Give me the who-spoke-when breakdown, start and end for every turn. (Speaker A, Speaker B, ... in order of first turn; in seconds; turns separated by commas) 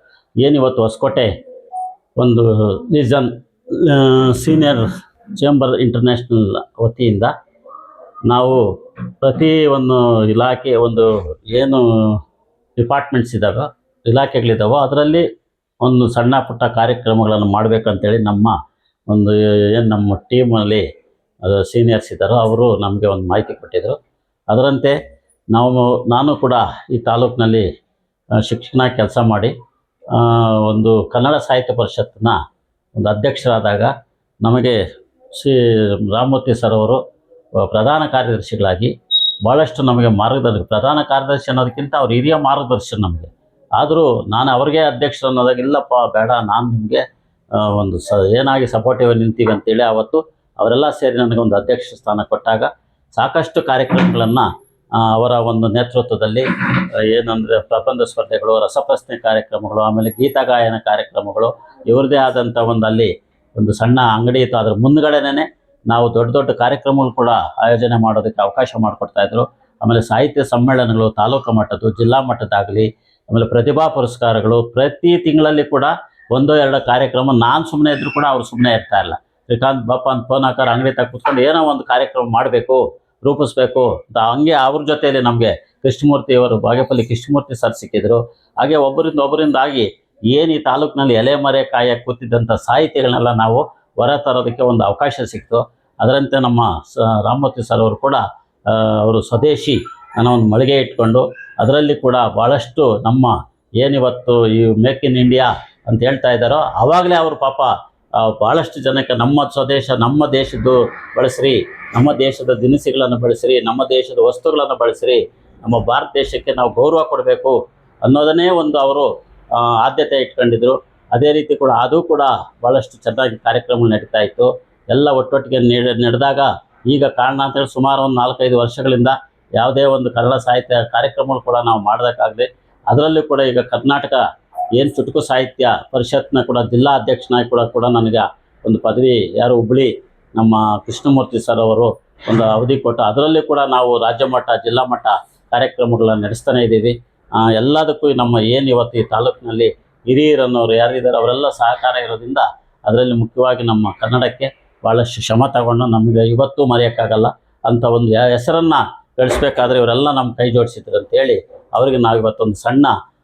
Speaker A: 0.4-1.3, Speaker A: 2.2-7.3, Speaker A: 8.3-8.6, Speaker A: 9.2-12.2, Speaker A: 12.8-15.2, Speaker A: 15.8-18.6, Speaker A: 19.1-20.9, Speaker A: 21.4-24.0, Speaker A: 24.5-25.0, Speaker A: 25.5-27.7, Speaker A: 28.4-29.5, Speaker A: 30.1-32.4, Speaker A: 33.0-33.9, Speaker A: 34.4-34.8, Speaker A: 35.3-37.0, Speaker A: 37.6-38.9, Speaker A: 39.5-47.0, Speaker A: 47.6-54.5, Speaker A: 55.0-56.5, Speaker A: 57.0-134.2, Speaker A: 134.8-162.9